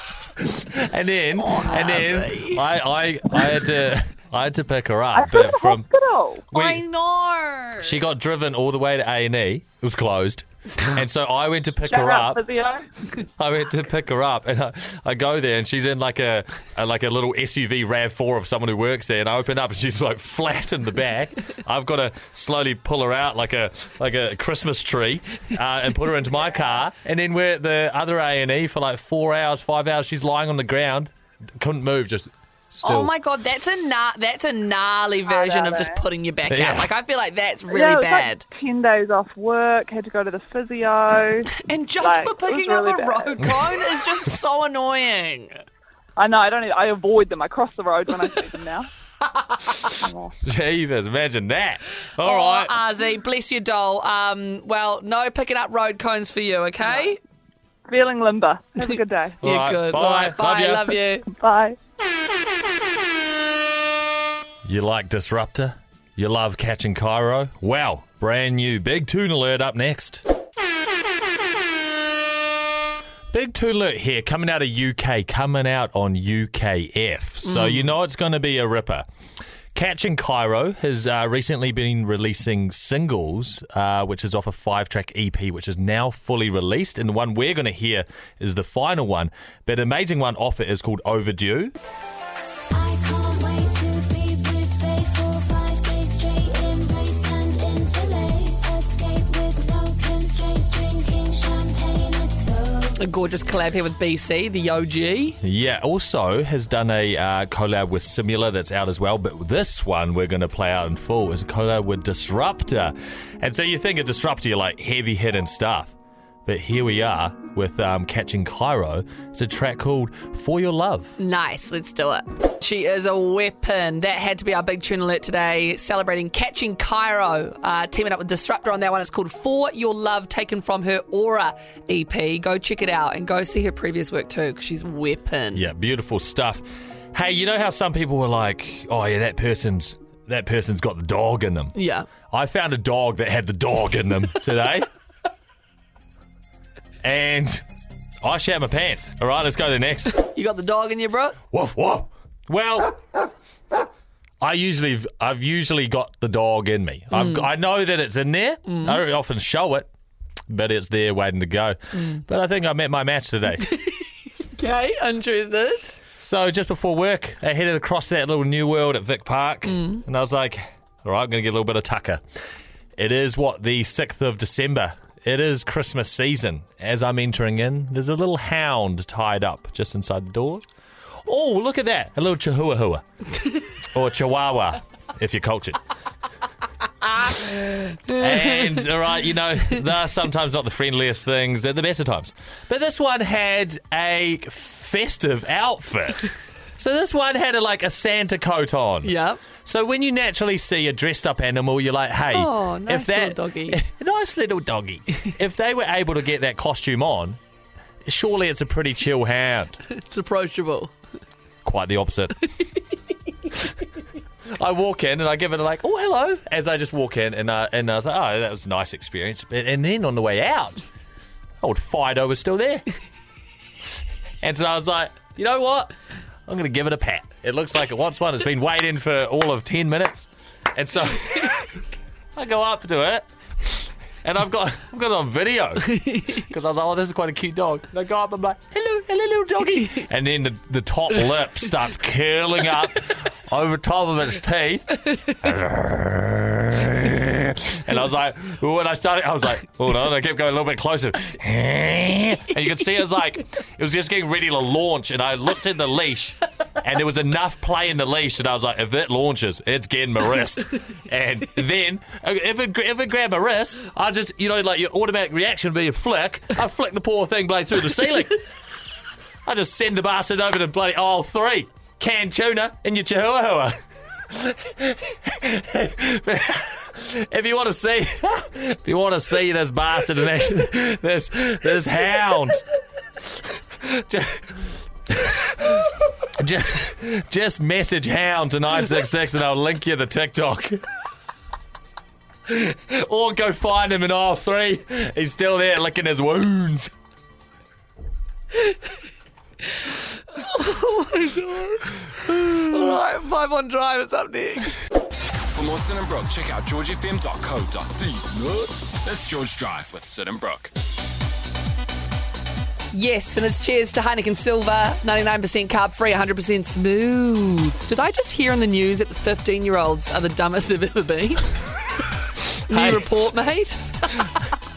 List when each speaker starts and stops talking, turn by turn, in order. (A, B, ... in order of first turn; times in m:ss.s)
0:00.6-0:05.9 A
0:01.4-0:02.6 B
0:05.2-0:06.4 C
0:06.5-0:06.8 A
0:06.5-0:08.0 B
0:07.8-0:12.4 A
0:11.9-0:12.9 C
0:13.4-0:33.1 A
0:32.8-0:38.4 B
0:35.3-0:36.0 C
0:36.5-0:36.9 A
0:37.7-0:41.5 C
0:41.5-0:45.6 B
0:42.0-0:43.6 C
0:46.2-0:48.9 C
0:49.4-0:49.9 B
0:49.9-0:50.4 C
0:50.4-0:52.8 A
0:52.2-0:57.2 B
0:57.9-0:59.4 C
0:59.4-1:01.0 A
0:59.4-1:01.3 B
1:01.3-1:01.8 C
1:04.6-1:10.2 A
1:13.3-1:19.1 A
1:17.4-1:17.9 B
1:19.8-1:31.7 A
1:32.7-1:42.9 D
1:43.0-1:45.4 B
1:45.4-1:55.9 A
1:56.5-2:01.1 A
2:01.2-2:15.6 B
2:15.5-2:21.7 A
2:21.8-2:22.1 B
2:22.3-2:24.9 A
2:27.0-2:27.6 A
2:28.2-2:30.2 A
2:30.1-2:31.4 B
2:31.5-2:33.0 A
2:34.4-2:39.9 A
2:37.1-2:37.5 B
2:38.7-2:39.0 B
2:40.5-2:43.7 A
2:41.9-2:42.2 B
2:43.6-2:43.9 B
2:44.6-2:45.9 B
2:46.2-2:52.2 A
2:49.7-2:50.0 B
2:53.0-3:00.6 A
3:01.3-3:03.0 A
3:03.9-3:05.8 A
3:07.2-3:27.4 A
3:19.0-3:19.4 B
3:22.3-3:23.8 B
3:28.0-3:29.8 A
3:29.9-3:30.9 B
3:31.6-3:32.5 A
3:34.6-3:40.9 A
3:41.6-3:42.8 A
3:44.4-3:45.9 A
3:46.5-3:51.8 A
3:52.4-4:28.4 A
3:56.0-3:56.2 B
4:29.5-4:33.8 A
4:34.3-4:42.6 A
4:43.8-4:50.8 A
4:52.5-4:56.9 A
5:00.3-5:04.8 B
5:05.5-5:10.7 E
5:12.9-5:21.5 B
5:22.7-5:24.4 B
5:22.7-5:23.1 A